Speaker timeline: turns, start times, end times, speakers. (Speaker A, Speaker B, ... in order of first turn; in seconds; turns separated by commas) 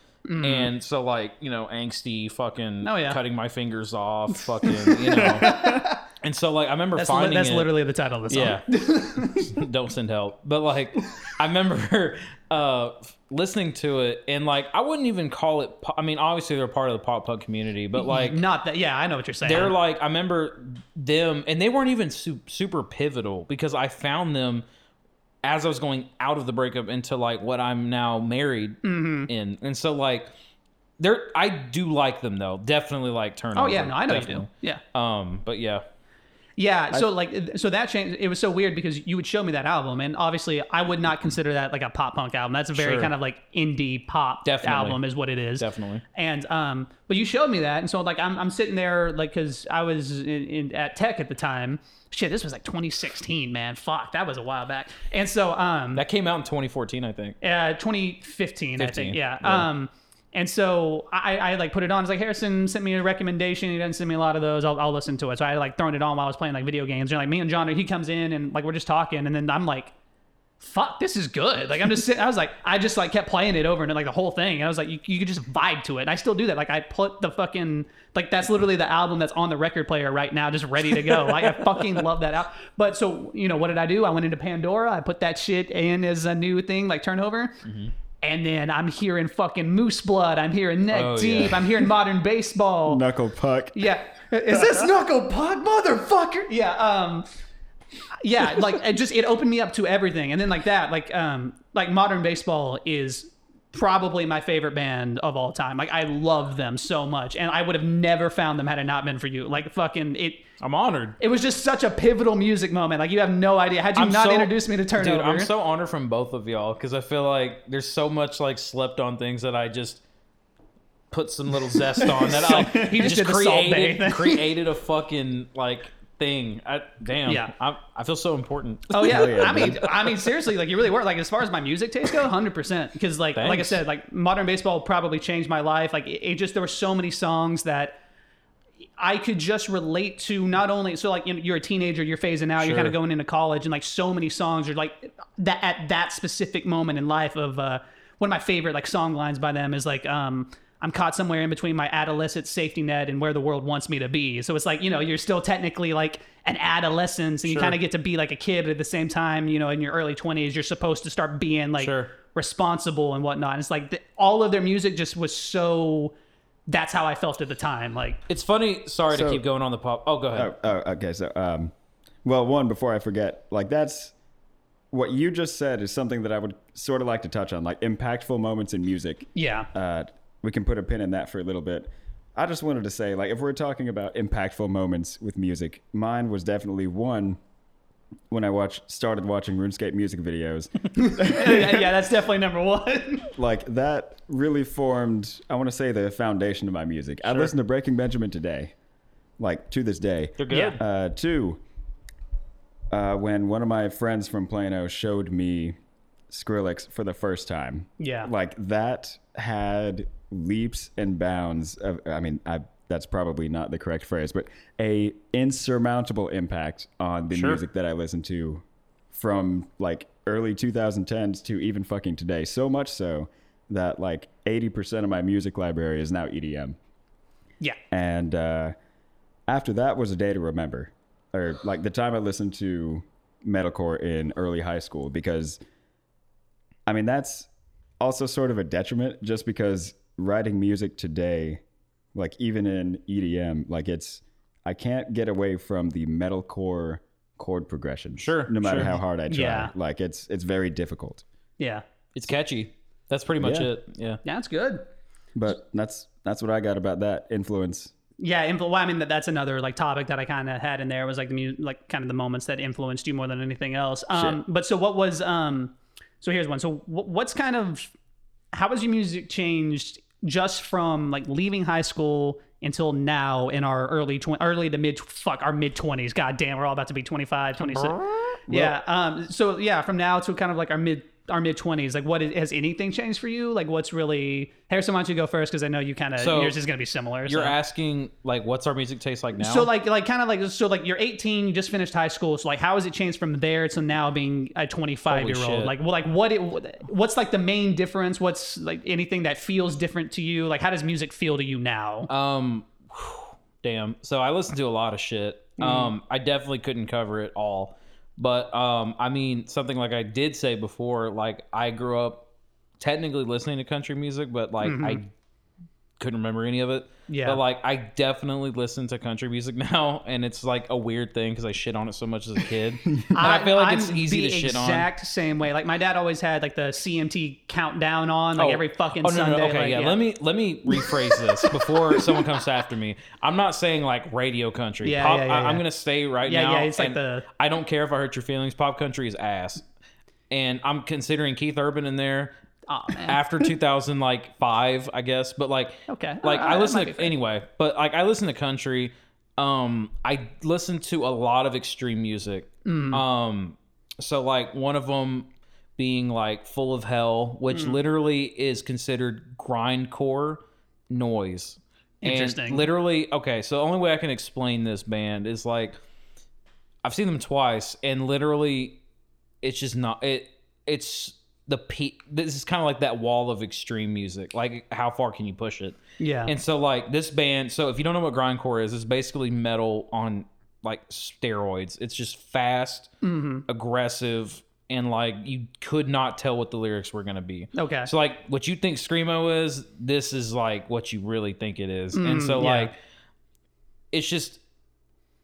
Speaker A: 0.3-0.7, Speaker B: 0.4-7.7, Speaker A: 2.8-3.2, Speaker A: 4.6-6.0, Speaker A: 7.0-9.6, Speaker B: 8.3-18.4, Speaker A: 17.9-19.7, Speaker B: 19.4-24.6, Speaker B: 25.4-30.3, Speaker A: 28.8-29.3, Speaker B: 31.0-35.8, Speaker A: 33.5-34.8, Speaker A: 36.6-56.0, Speaker B: 42.8-43.1, Speaker B: 44.4-45.0, Speaker B: 45.6-46.0, Speaker B: 55.9-57.4, Speaker A: 57.4-69.9, Speaker B: 58.8-59.7, Speaker A: 70.6-87.5, Speaker B: 80.9-82.0, Speaker B: 87.6-87.9, Speaker A: 88.2-93.0, Speaker B: 90.9-91.7, Speaker C: 92.9-93.9, Speaker A: 93.7-97.3, Speaker C: 94.5-94.8, Speaker A: 98.2-110.4, Speaker B: 110.6-111.2, Speaker A: 111.2-115.5, Speaker B: 114.0-120.0, Speaker B: 121.1-129.9, Speaker A: 122.1-124.4, Speaker C: 122.5-123.0, Speaker A: 127.3-127.5, Speaker A: 128.9-138.0, Speaker C: 129.1-129.9, Speaker B: 133.3-133.8, Speaker A: 139.0-166.1, Speaker B: 142.6-142.9, Speaker B: 157.5-157.8, Speaker B: 161.8-162.1, Speaker A: 166.7-168.2, Speaker B: 168.3-170.5, Speaker C: 169.1-169.4, Speaker C: 170.3-171.7, Speaker C: 172.2-174.1, Speaker C: 174.9-187.4, Speaker A: 179.3-179.7, Speaker C: 188.3-191.9, Speaker A: 190.9-193.3, Speaker C: 193.3-198.7, Speaker B: 197.2-197.5, Speaker C: 199.4-201.6, Speaker B: 200.4-200.8, Speaker A: 200.5-200.8, Speaker C: 202.9-205.7, Speaker C: 206.3-226.8, Speaker A: 208.0-208.3, Speaker B: 217.3-217.6, Speaker C: 227.9-228.7, Speaker C: 229.5-235.6, Speaker C: 236.9-237.5, Speaker C: 238.0-241.6, Speaker C: 242.1-251.2, Speaker B: 248.2-249.0, Speaker A: 249.3-249.7, Speaker A: 251.6-251.8, Speaker B: 252.1-254.2, Speaker C: 253.4-253.7, Speaker A: 254.2-254.8, Speaker C: 255.3-257.9, Speaker A: 258.2-267.9, Speaker C: 264.1-264.4, Speaker A: 268.5-287.6, Speaker B: 277.6-278.4, Speaker C: 278.5-278.7, Speaker B: 286.2-286.6, Speaker B: 287.3-289.7, Speaker A: 289.4-302.1, Speaker B: 295.1-295.7, Speaker B: 302.1-312.2, Speaker A: 305.6-305.9, Speaker B: 312.8-315.1, Speaker A: 314.6-315.0, Speaker B: 316.0-324.9, Speaker A: 317.1-317.4, Speaker A: 323.1-330.0, Speaker B: 328.4-339.6, Speaker A: 331.5-332.2, Speaker A: 334.8-335.6, Speaker A: 336.2-337.2, Speaker B: 340.3-342.3, Speaker A: 342.7-343.5, Speaker B: 343.1-365.8, Speaker A: 345.9-347.1, Speaker A: 352.6-353.0, Speaker A: 357.5-357.8, Speaker A: 362.0-362.6, Speaker B: 366.8-368.8, Speaker B: 369.4-382.9, Speaker A: 376.0-376.3, Speaker A: 383.0-383.4, Speaker B: 383.5-392.8, Speaker A: 387.5-387.9, Speaker A: 391.9-392.7, Speaker B: 393.9-394.4